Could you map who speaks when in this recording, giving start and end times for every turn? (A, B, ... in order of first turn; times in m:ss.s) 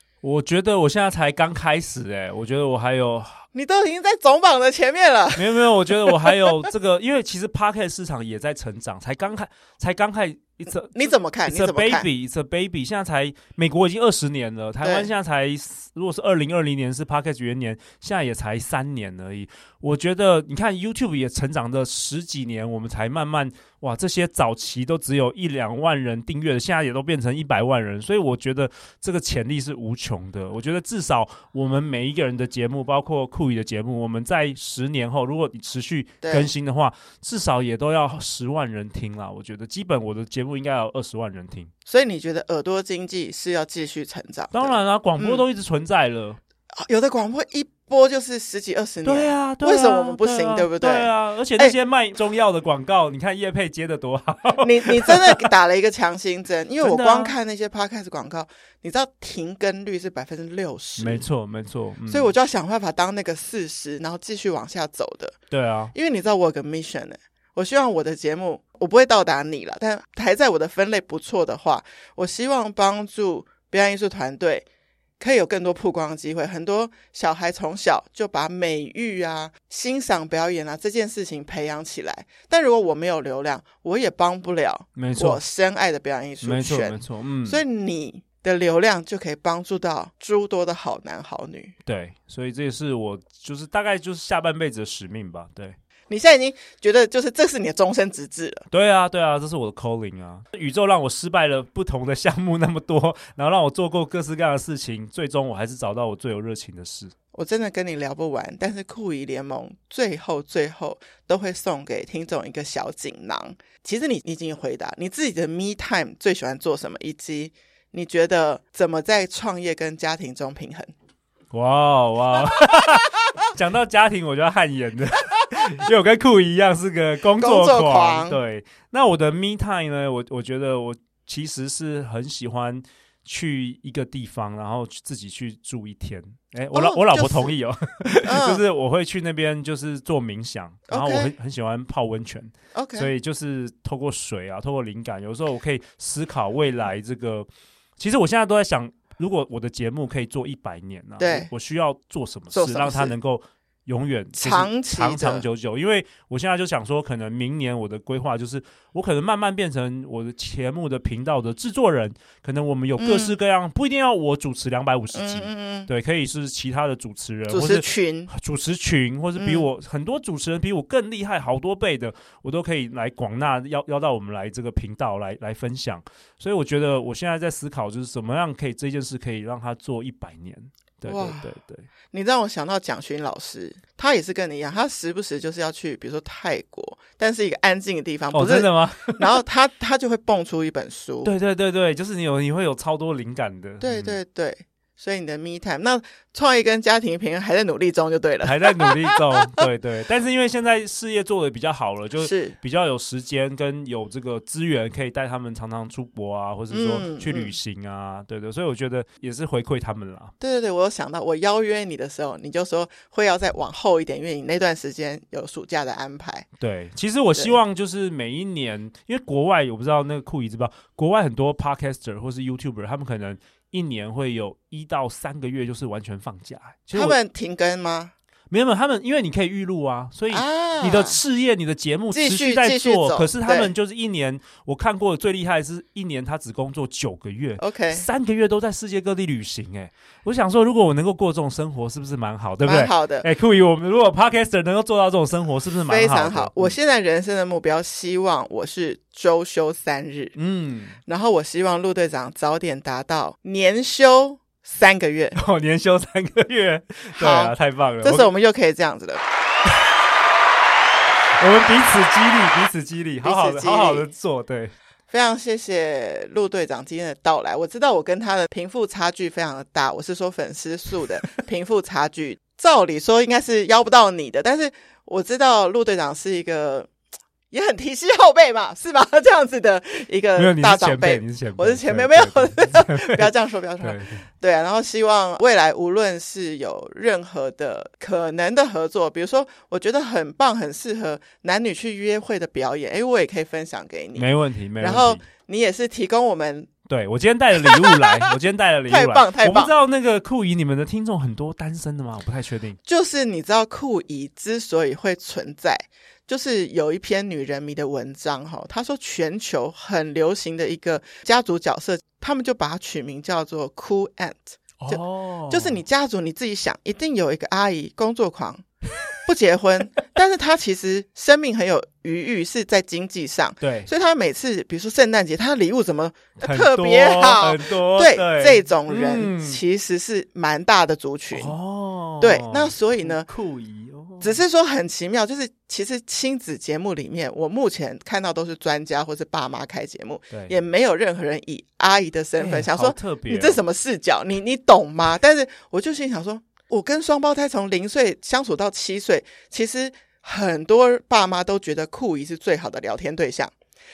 0:00.2-0:03.4 A
0:03.5-0:06.5 B
0:05.4-0:41.7 A
0:10.9-0:12.1 B
0:14.8-0:15.1 B
0:36.2-0:36.5 B
0:41.9-0:45.4 B
0:44.5-0:46.4 A
0:46.8-0:51.8 B
0:49.0-0:55.5 A
0:54.6-1:01.2 B
0:56.8-0:57.4 A
1:01.0-1:02.3 A
1:02.1-1:05.4 B
1:05.5-1:05.9 A
1:05.9-1:14.7 B
1:15.2-1:31.8 B
1:25.0-1:25.4 A
1:26.4-1:27.6 A
1:31.9-1:35.8 A
1:36.1-1:38.7 B
1:38.7-1:47.1 A
1:47.3-2:00.9 B
2:01.5-3:01.9 A
2:02.4-2:03.1 B
2:07.4-2:08.4 B
2:16.7-2:17.5 B
2:18.2-2:18.6 B
2:20.9-2:21.3 B
2:22.7-2:23.1 B
2:31.2-2:31.5 B
2:32.5-2:33.1 B
2:34.4-2:35.4 B
2:43.0-2:43.4 B
2:45.1-2:45.9 B
2:47.5-2:48.3 B
2:49.4-2:49.7 B
3:01.0-3:01.4 B
3:02.1-3:11.3 B
3:08.3-3:09.4 A
3:11.2-3:14.2 A
3:13.8-3:19.4 B
3:18.4-3:30.3 A
3:22.2-3:22.6 B
3:26.7-3:27.6 B
3:30.4-3:36.5 B
3:36.6-3:47.2 A
3:46.9-3:48.1 B
3:48.5-4:06.8 A
3:50.3-3:51.2 B
3:52.1-3:53.7 B
3:57.6-3:58.1 B
4:02.6-4:03.3 B
4:05.9-4:10.4 B
4:10.4-4:11.0 A
4:11.1-4:15.4 B
4:15.4-4:18.3 A
4:17.2-4:19.2 B
4:21.4-4:24.7 A
4:23.2-4:24.1 B
4:25.1-4:36.9 B
4:37.5-4:56.7 B
4:40.4-4:44.3 A
4:54.2-4:55.2 A
4:56.9-5:02.8 A
4:57.6-4:58.3 B
4:58.9-4:59.7 B
5:02.9-5:18.6 B
5:14.8-5:15.8 A
5:19.2-5:31.5 B
5:23.6-5:23.9 A
5:26.4-5:29.6 A
5:31.3-5:34.4 A
5:32.2-5:33.3 B
5:34.2-5:53.5 B
5:40.3-5:40.6 A
5:42.4-5:43.6 A